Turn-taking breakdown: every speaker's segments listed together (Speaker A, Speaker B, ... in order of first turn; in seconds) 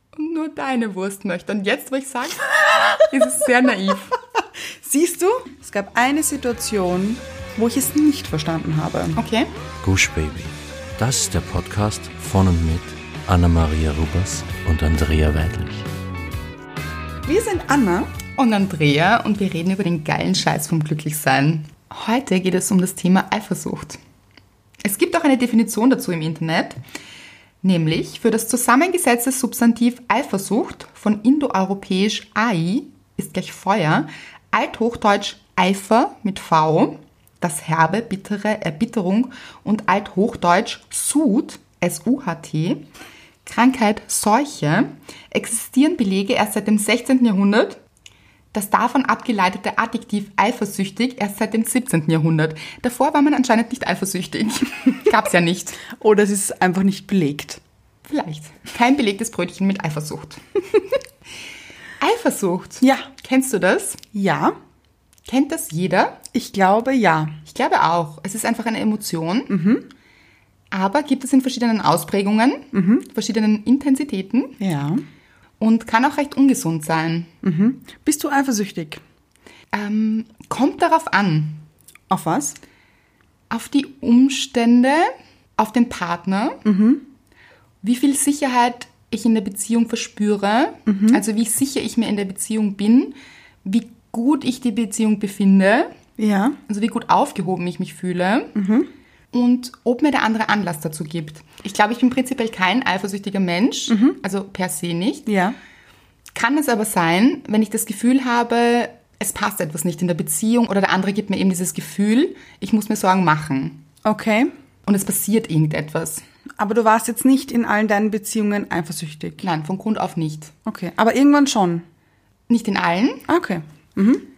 Speaker A: 0.1-4.2, 9.1-9.5, 18.4-24.0, 24.8-26.8, 27.6-42.9, 43.5-47.8, 48.5-55.8, 58.0-60.4, 62.0-64.0, 65.3-66.2, 67.5-69.5, 70.7-74.6, 75.6-77.3, 79.7-81.6, 83.5-86.6, 87.8-95.9, 96.7-98.5, 99.3-105.3, 106.3-113.8, 114.8-116.2, 119.4-120.5, 122.5-123.3
Speaker B: 4.3-9.2, 17.2-18.1, 55.9-57.6, 62.8-63.1, 64.1-64.5, 66.3-67.4, 69.5-69.9, 72.7-73.1, 74.6-75.0, 77.4-79.0, 82.1-82.6, 86.6-87.0, 90.9-91.2, 96.2-96.6, 98.5-98.9, 103.9-104.2, 105.3-105.5, 114.0-114.5, 116.6-119.4, 120.6-121.8, 123.3-124.2
Speaker C: 9.8-15.8